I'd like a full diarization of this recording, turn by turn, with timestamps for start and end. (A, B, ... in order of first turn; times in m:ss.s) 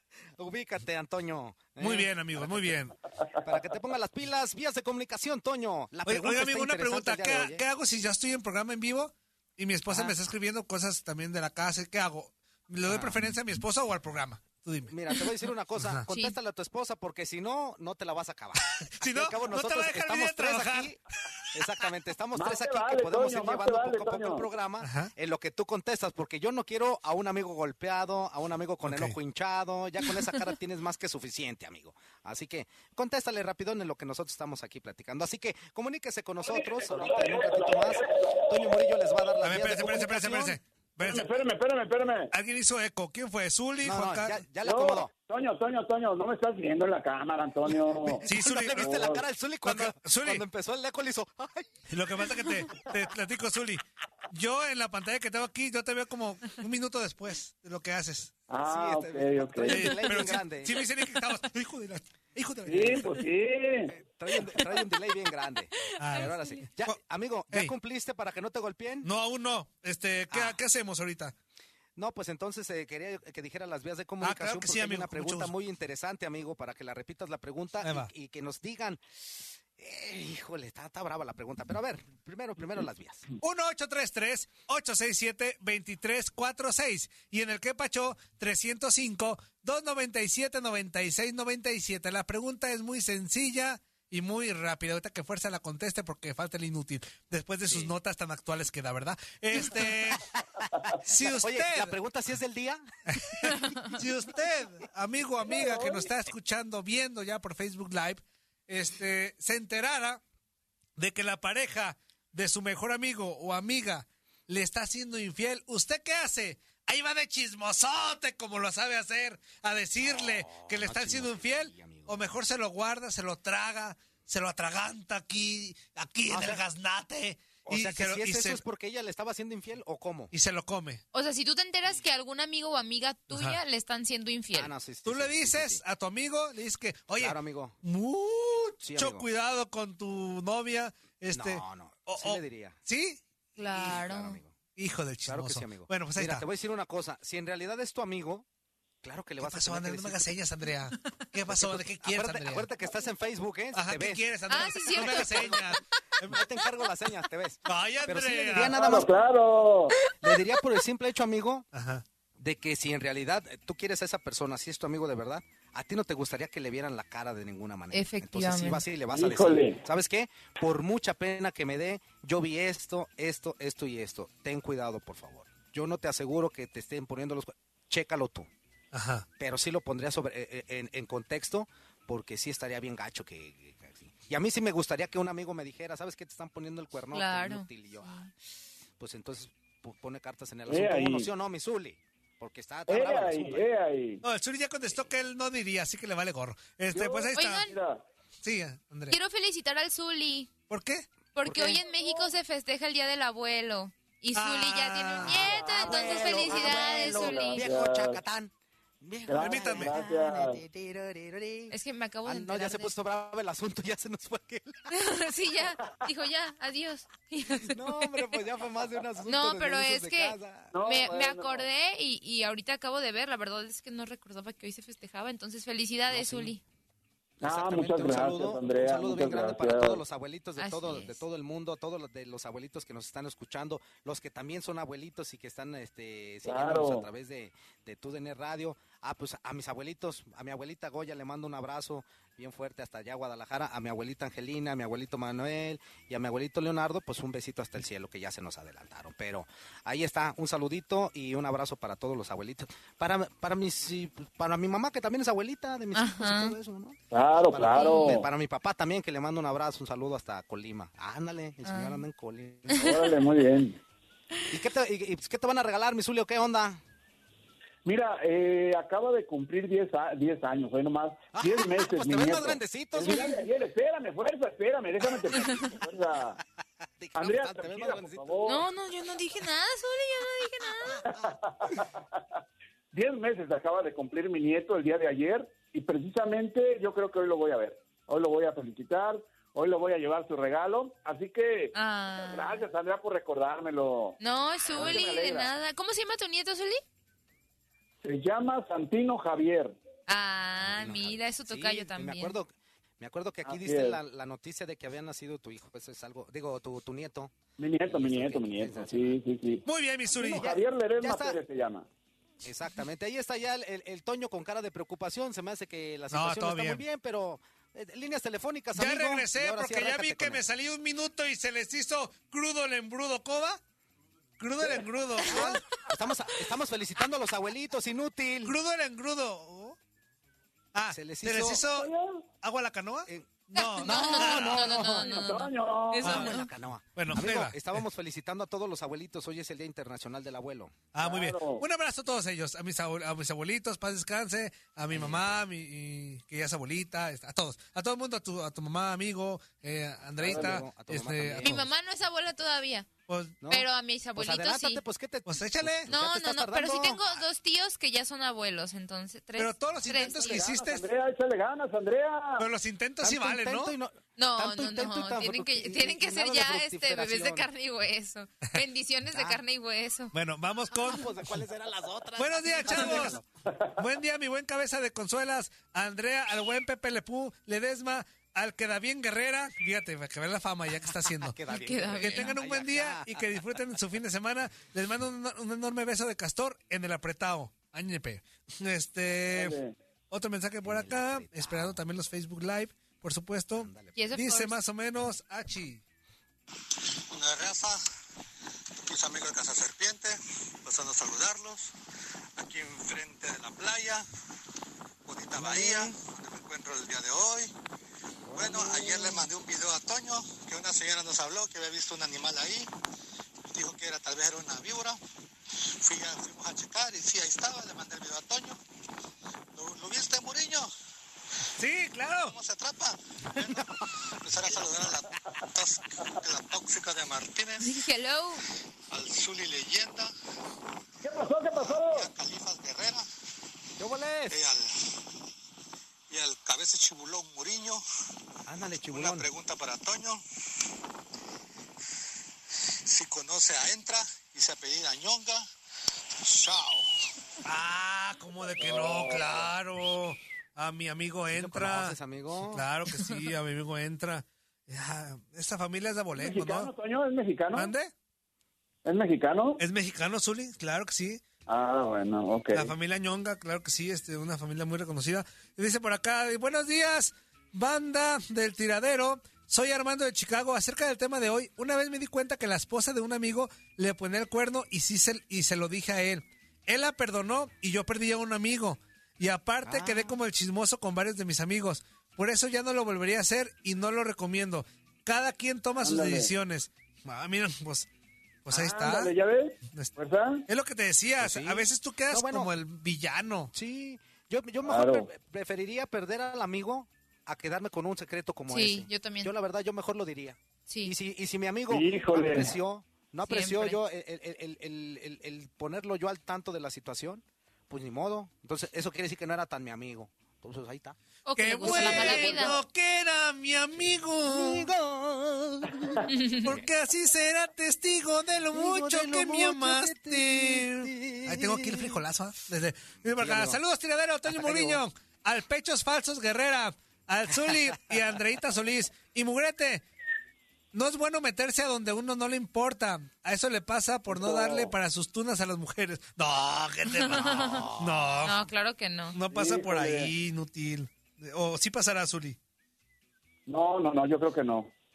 0:00.4-0:02.8 A
0:01.8-0:03.0 B
0:03.4-0:07.6 A
0:06.0-0:15.0 B
0:09.9-0:10.2 A
0:12.8-0:13.1 A
0:14.9-0:21.0 A
0:15.8-0:16.0 B
0:16.1-0:16.3 C
0:18.7-0:21.5 B
0:21.5-0:40.6 A
0:22.3-0:24.5 D
0:24.8-0:25.1 B
0:28.8-0:29.2 B
0:36.4-0:39.0 D
0:39.4-0:41.3 B
0:41.0-0:42.3 D
0:42.3-0:44.5 B
0:43.8-0:45.1 A
0:44.6-0:49.2 D
0:48.2-0:49.1 B
0:48.2-0:51.8 A
0:49.6-0:50.4 B
0:51.9-0:58.3 B
0:58.5-0:59.9 D
0:58.6-1:00.8 A
0:59.6-1:03.2 B
1:02.6-1:03.9 D
1:03.9-1:09.1 A
1:06.0-1:06.3 B
1:06.1-1:06.6 C
1:09.0-1:11.3 B
1:10.3-1:10.6 A
1:12.0-1:19.0 A
1:14.2-1:15.5 B
1:17.8-1:18.1 B
1:19.8-1:23.2 A
1:23.4-1:40.3 B
1:40.7-1:41.0 D
1:41.0-1:41.9 B
1:41.2-1:42.8 A
1:43.1-1:50.2 B
1:43.4-1:43.7 A
1:45.4-1:46.1 D
1:51.0-2:08.6 B
2:00.0-2:02.4 A
2:06.3-2:06.6 A
2:07.7-2:10.3 A
2:10.3-2:11.0 B
2:11.1-2:14.7 C
2:13.3-2:13.6 B
2:14.5-2:15.8 A
2:15.0-2:23.2 B
2:17.2-2:17.8 A
2:18.8-2:19.3 A
2:21.3-2:22.8 A
2:23.6-2:24.4 C
2:23.7-2:24.6 A
2:24.8-2:26.4 B
2:25.3-2:28.4 A
2:29.0-2:30.3 A
2:29.4-2:32.7 B
2:31.5-2:34.2 A
2:33.7-2:36.4 B
2:34.5-2:35.6 C
2:34.9-2:35.6 A
2:36.2-2:39.1 A
2:37.6-2:38.8 B
2:38.6-2:40.0 D
2:40.0-2:40.4 C
2:40.1-2:41.7 A
2:41.7-2:42.0 B
2:42.4-2:58.5 A
2:47.9-2:48.8 C
2:49.1-2:49.8 D
2:58.9-2:59.3 B
2:59.4-3:08.3 A
3:07.1-3:08.3 C
3:09.0-3:13.7 A
3:10.7-3:11.3 D
3:12.9-3:14.2 D
3:14.2-3:17.7 B
3:14.9-3:15.2 A
3:16.9-3:18.0 D
3:17.3-3:17.7 C
3:18.4-3:19.2 B
3:19.1-3:20.5 C
3:20.7-3:21.0 B
3:21.3-3:27.7 C
3:21.4-3:21.8 A
3:21.9-3:22.2 D
3:24.3-3:25.5 B
3:25.2-3:34.9 A
3:25.4-3:28.2 D
3:29.3-3:30.6 D
3:29.4-3:30.0 B
3:31.7-3:32.9 C
3:34.9-3:38.3 C
3:37.6-3:40.7 A
3:39.3-3:46.6 C
3:40.7-3:41.7 D
3:46.1-3:46.5 A
3:47.4-3:50.0 D
3:47.5-4:17.0 A
3:50.6-3:51.2 C
3:56.4-3:57.1 D
4:15.9-4:16.6 C
4:17.1-4:18.3 D
4:17.5-4:23.1 A
4:17.7-4:18.2 C
4:21.6-4:22.0 C
4:22.7-4:23.0 C
4:22.7-4:23.8 D
4:24.5-4:26.8 A
4:27.8-4:36.4 D
4:31.3-4:33.5 A
4:35.2-4:35.8 A
4:36.4-4:38.3 A
4:37.2-4:38.6 D
4:38.5-4:41.1 C
4:41.0-4:42.2 D
4:41.0-4:41.3 A
4:42.9-4:55.5 D
4:51.8-4:52.7 C
4:54.2-4:56.8 C
4:58.0-4:59.8 D
5:00.1-5:02.4 C
5:00.6-5:09.2 A
5:03.4-5:04.0 D
5:07.6-5:11.9 D
5:09.6-5:10.5 B
5:10.2-5:11.4 A
5:12.4-5:20.4 A
5:16.1-5:16.8 B
5:18.7-5:23.6 B
5:24.4-5:25.8 B
5:25.2-5:28.6 A
5:28.4-5:29.8 B
5:30.7-5:31.9 B
5:30.9-5:31.6 A
5:31.6-5:32.2 D
5:32.4-5:34.9 B
5:33.1-5:35.1 A
5:33.6-5:36.5 C
5:34.9-5:36.2 D
5:36.0-5:40.8 A
5:36.0-5:36.4 B
5:37.0-5:37.8 B
5:40.9-5:51.7 B
5:41.0-5:41.6 D
5:44.9-5:45.4 A
5:50.2-5:51.6 A
5:50.2-5:50.6 D
5:51.4-5:52.9 C
5:53.1-5:53.4 B
5:53.4-5:57.2 A
5:53.5-5:54.8 C
5:55.2-5:55.9 B
5:55.9-6:00.4 C
5:59.4-6:00.9 B
6:00.2-6:02.5 D
6:02.4-6:03.7 B
6:03.0-6:07.5 A
6:04.2-6:10.1 C
6:09.1-6:09.4 A
6:10.1-6:11.1 B
6:10.8-6:13.2 A
6:12.2-6:13.2 B
6:13.5-6:13.8 D
6:13.8-6:21.4 B
6:20.9-6:23.3 A
6:21.5-6:22.4 C
6:22.0-6:29.6 B
6:29.3-6:29.8 D
6:30.1-6:35.8 B
6:30.6-6:31.8 A
6:33.5-6:34.0 A
6:33.9-6:34.6 C
6:37.1-6:37.8 E
6:38.8-6:41.7 E
6:42.4-6:44.1 E
6:45.1-6:47.5 E
6:45.4-6:46.0 A
6:48.3-6:49.3 A
6:48.3-6:52.7 E
6:53.5-6:55.0 E
6:55.8-6:58.6 E
6:59.5-7:00.7 E
7:01.6-7:02.4 B
7:02.0-7:03.5 E
7:03.4-7:03.6 A
7:04.2-7:07.7 E
7:07.6-7:08.4 C
7:08.9-7:10.1 E
7:11.0-7:12.1 D
7:11.6-7:13.1 E
7:13.8-7:14.4 A
7:14.3-7:14.7 E
7:16.1-7:17.8 E
7:18.5-7:19.3 A
7:18.8-7:20.2 E
7:22.9-7:25.5 E
7:26.2-7:26.9 E
7:27.4-7:36.7 B
7:28.5-7:29.5 D
7:31.3-7:32.7 A
7:36.1-7:37.7 D
7:37.5-7:37.9 B
7:38.8-7:39.6 D
7:39.6-7:41.2 B
7:41.5-7:42.7 D
7:42.5-8:07.9 B
7:59.6-8:00.2 A
8:05.8-8:06.3 D
8:08.4-8:09.1 B
8:08.5-8:10.4 D
8:10.5-8:13.5 B
8:11.2-8:12.5 A
8:13.5-8:31.0 A
8:14.6-8:15.1 D
8:18.5-8:19.3 C
8:20.7-8:20.9 C
8:21.7-8:22.6 D
8:23.2-8:23.8 C
8:31.3-8:32.6 C
8:31.4-8:34.7 B
8:31.6-8:32.6 A
8:33.8-8:36.7 A
8:36.1-8:36.4 C
8:36.4-8:49.8 B
8:38.5-8:42.0 A
8:43.2-8:43.6 A
8:44.3-8:44.8 A
8:47.5-8:47.9 A
8:50.7-8:58.4 B
8:54.1-8:54.7 D
8:56.9-8:57.7 C
8:57.3-8:58.0 A
8:58.2-8:59.2 C
8:59.1-9:02.4 B
8:59.3-9:00.1 D
9:03.5-9:04.7 D